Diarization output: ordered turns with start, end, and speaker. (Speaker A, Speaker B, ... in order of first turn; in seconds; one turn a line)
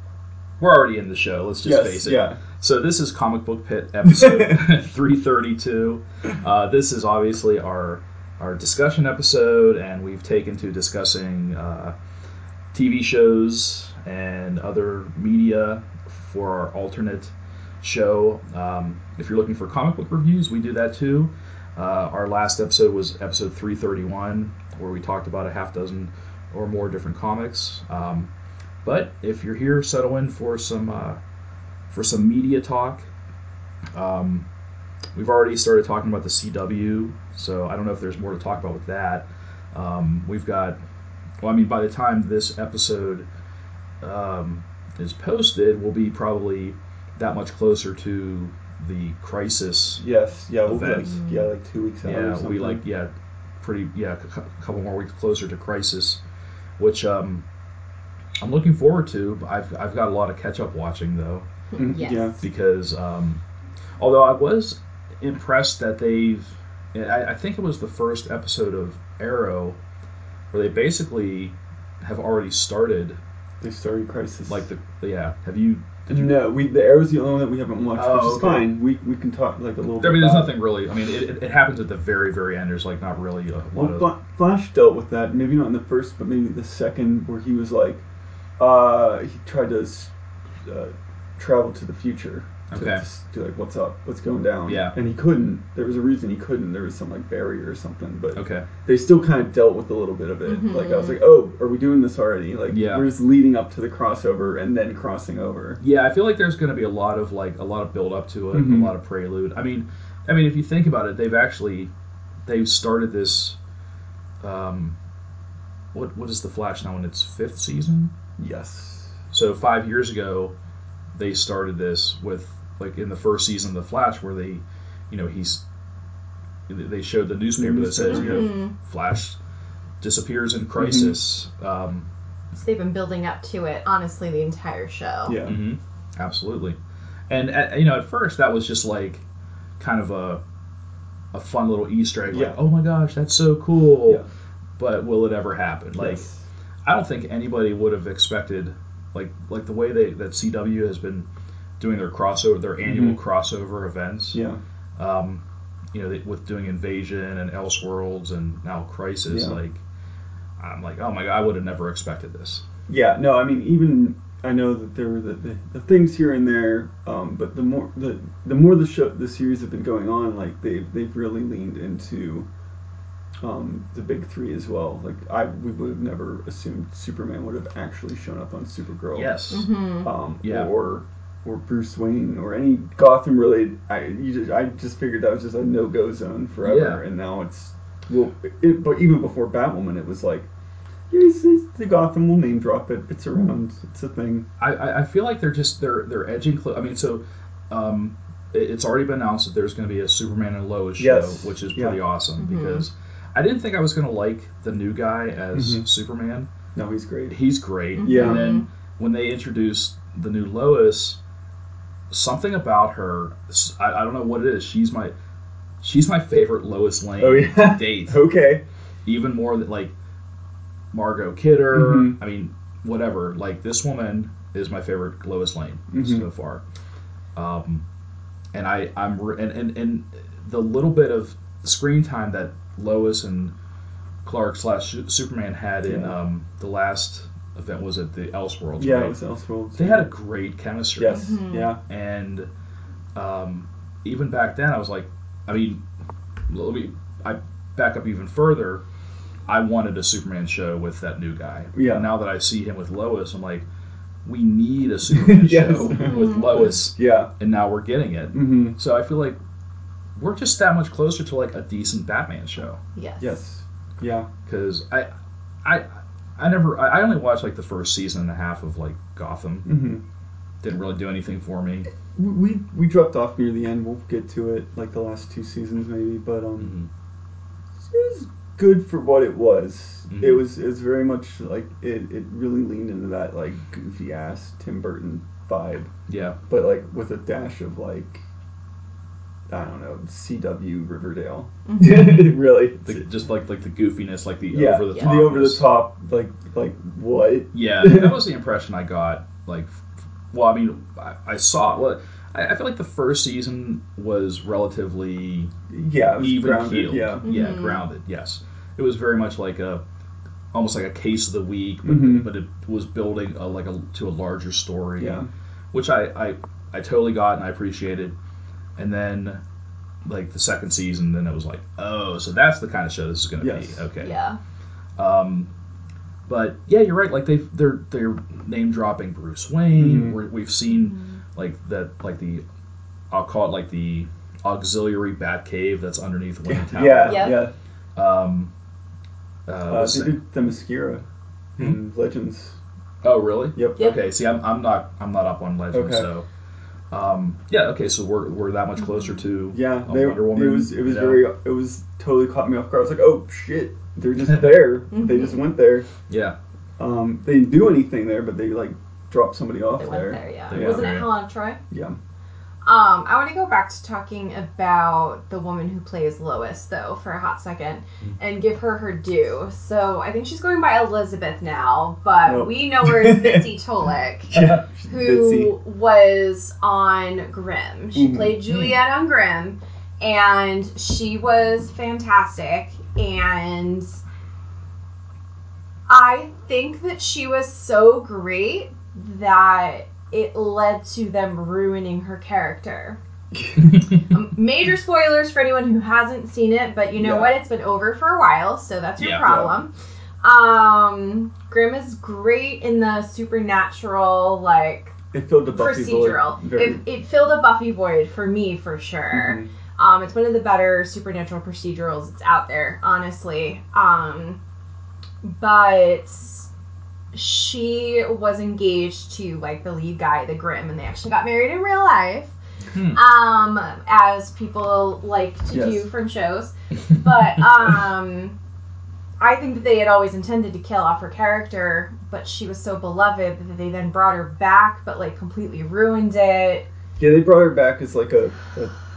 Speaker A: 0.6-11.9
Speaker B: 1.6-2.4
Speaker B: 4.1-4.6
Speaker A: 12.7-28.3
Speaker A: 28.8-31.2
Speaker A: 31.9-33.1
Speaker A: 33.9-34.5
Speaker A: 35.1-40.8
Speaker A: 41.4-43.3
Speaker A: 44.0-50.0
Speaker B: 50.0-52.8
Speaker A: 50.6-51.1
Speaker C: 51.0-51.5
Speaker A: 52.0-56.2
Speaker A: 56.8-57.4
Speaker A: 58.4-61.4
Speaker C: 61.7-62.4
Speaker B: 61.8-62.4
Speaker A: 62.4-63.4
Speaker A: 64.0-69.8
Speaker A: 70.5-73.2
Speaker B: 73.6-74.7
Speaker A: 74.5-76.4
Speaker B: 76.1-80.5
Speaker A: 77.9-78.7
Speaker A: 80.0-84.1
Speaker B: 83.7-88.0
Speaker B: 88.6-105.8
Speaker A: 92.7-93.0
Speaker A: 94.7-94.9
Speaker A: 98.3-98.7
Speaker C: 100.5-101.2
Speaker A: 102.7-103.1
Speaker A: 105.8-111.9
Speaker B: 108.5-108.9
Speaker A: 112.5-113.6
Speaker A: 114.4-115.0
Speaker A: 115.9-118.1
Speaker B: 118.4-119.2
Speaker A: 119.3-120.5
Speaker A: 121.2-125.6
Speaker A: 126.7-129.4
Speaker B: 127.6-128.5
Speaker C: 128.1-128.7
Speaker A: 130.0-132.1
Speaker B: 130.8-131.2
Speaker C: 132.5-135.4
Speaker B: 135.2-135.6
Speaker A: 135.4-136.8
Speaker A: 137.3-139.2
Speaker A: 139.8-140.4
Speaker A: 141.3-144.2
Speaker B: 142.3-142.6
Speaker A: 144.8-146.2
Speaker B: 146.0-146.4
Speaker A: 146.8-151.3
Speaker A: 151.8-154.4
Speaker B: 152.8-153.2
Speaker B: 154.3-154.6
Speaker A: 155.0-155.4
Speaker A: 155.9-159.8
Speaker B: 159.3-159.6
Speaker A: 160.6-162.6
Speaker B: 162.9-172.5
Speaker B: 173.4-179.3
Speaker A: 179.1-179.7
Speaker C: 179.5-180.1
Speaker B: 180.0-190.5
Speaker A: 180.4-180.7
Speaker A: 186.6-187.0
Speaker B: 191.1-194.5
Speaker A: 194.6-206.5
Speaker B: 201.0-202.0
Speaker C: 202.4-202.8
Speaker B: 205.5-205.8
Speaker B: 206.8-207.4
Speaker A: 207.3-211.2
Speaker C: 208.0-208.7
Speaker B: 208.0-208.5
Speaker A: 212.1-215.1
Speaker A: 215.8-218.2
Speaker B: 217.2-218.6
Speaker A: 219.1-219.9
Speaker A: 220.9-226.6
Speaker B: 221.7-222.2
Speaker B: 225.9-226.3
Speaker A: 227.4-227.8
Speaker A: 228.5-233.5
Speaker A: 234.2-239.2
Speaker B: 235.8-236.2
Speaker B: 238.8-240.1
Speaker A: 239.8-241.3
Speaker B: 241.0-241.8
Speaker C: 241.1-241.7
Speaker A: 241.9-242.5
Speaker A: 243.2-245.8
Speaker A: 246.5-248.8
Speaker A: 249.5-253.6
Speaker B: 251.7-252.1
Speaker A: 254.2-259.4
Speaker B: 255.1-257.3
Speaker C: 256.1-256.7
Speaker B: 258.3-258.8
Speaker A: 260.2-262.8
Speaker C: 262.9-263.4
Speaker B: 263.2-264.3
Speaker A: 264.5-265.1
Speaker A: 265.6-269.7
Speaker B: 269.7-270.0
Speaker A: 270.6-271.9
Speaker B: 272.1-276.7
Speaker A: 276.6-276.9
Speaker B: 277.8-285.9
Speaker A: 280.1-280.4
Speaker A: 286.1-286.4
Speaker B: 286.5-288.2
Speaker B: 289.5-293.0
Speaker C: 291.7-292.1
Speaker A: 292.8-295.7
Speaker B: 294.5-298.2
Speaker A: 297.5-305.5
Speaker B: 305.7-307.2
Speaker A: 306.2-309.8
Speaker C: 307.2-307.8
Speaker A: 310.5-318.1
Speaker B: 311.8-312.3
Speaker B: 315.0-315.3
Speaker A: 318.8-319.4
Speaker A: 320.1-324.1
Speaker B: 323.4-323.8
Speaker C: 324.0-324.4
Speaker A: 325.0-325.5
Speaker A: 326.3-332.4
Speaker B: 329.8-330.2
Speaker C: 330.7-331.2
Speaker A: 333.1-337.4
Speaker B: 336.4-337.5
Speaker C: 337.1-337.4
Speaker A: 337.9-338.5
Speaker A: 339.5-340.2
Speaker B: 339.7-341.0
Speaker B: 341.6-342.6
Speaker A: 343.0-346.3
Speaker B: 343.6-343.9
Speaker B: 345.7-346.1
Speaker A: 346.9-351.2
Speaker B: 349.5-355.9
Speaker C: 354.9-355.4
Speaker A: 356.1-356.4
Speaker B: 356.8-361.0
Speaker C: 359.8-361.6
Speaker A: 360.5-361.1
Speaker B: 361.7-362.0
Speaker C: 362.6-374.3
Speaker B: 372.3-373.5
Speaker A: 374.3-374.6
Speaker B: 374.3-375.5
Speaker C: 374.9-384.0
Speaker B: 377.9-378.4
Speaker A: 378.5-378.8
Speaker C: 385.9-393.0
Speaker B: 393.3-393.8
Speaker A: 393.6-394.0
Speaker C: 394.1-399.7
Speaker B: 397.0-397.3
Speaker A: 399.0-399.3
Speaker B: 399.2-399.6
Speaker C: 400.2-404.9
Speaker B: 405.1-406.8
Speaker C: 405.6-414.4
Speaker B: 409.1-409.5
Speaker C: 415.2-416.5
Speaker C: 417.1-422.3
Speaker A: 422.7-423.0
Speaker C: 422.9-428.4
Speaker B: 425.5-425.9
Speaker C: 429.2-436.7
Speaker B: 437.0-438.8